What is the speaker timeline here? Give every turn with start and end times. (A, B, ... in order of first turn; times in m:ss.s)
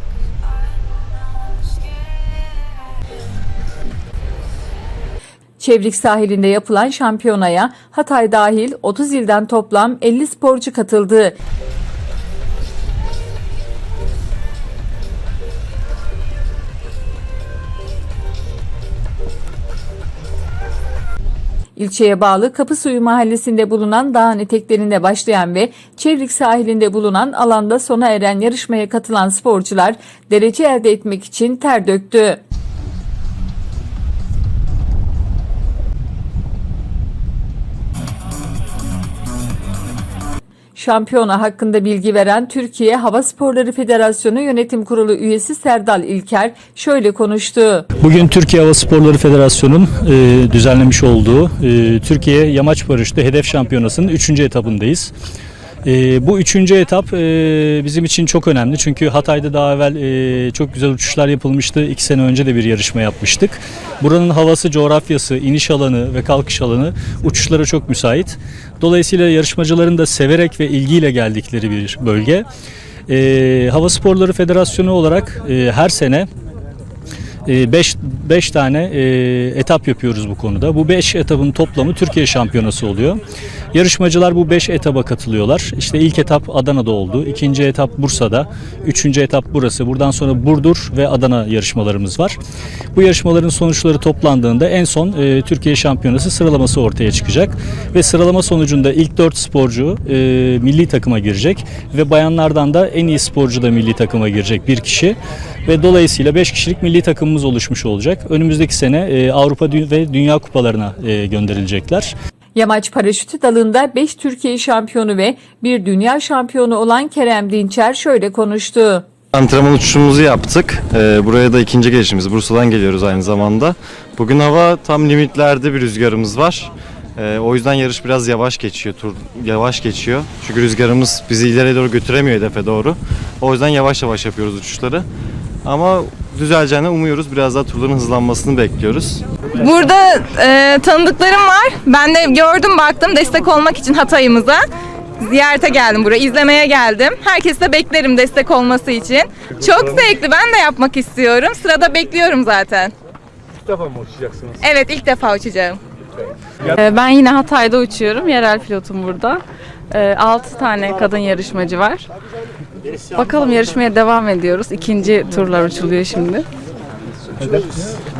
0:05.6-0:11.4 A
0:21.8-0:32.4 A
0:40.8-0:47.9 A
0:48.0-0:55.1 B
0:55.8-1:12.5 B
1:13.1-1:16.3 B
1:17.4-1:23.2 B
1:23.7-1:32.4 B
1:32.9-1:52.1 B
1:52.5-1:59.0 A
1:59.3-2:15.0 C
2:15.6-2:19.2 C
2:19.5-2:24.7 D
2:25.2-2:32.9 D
2:34.5-2:35.8 D
2:36.7-2:42.0 D
2:37.4-2:39.2 E
2:40.4-2:41.8 E
2:43.2-2:46.2 E
2:44.2-2:44.6 D
2:45.4-2:46.4 D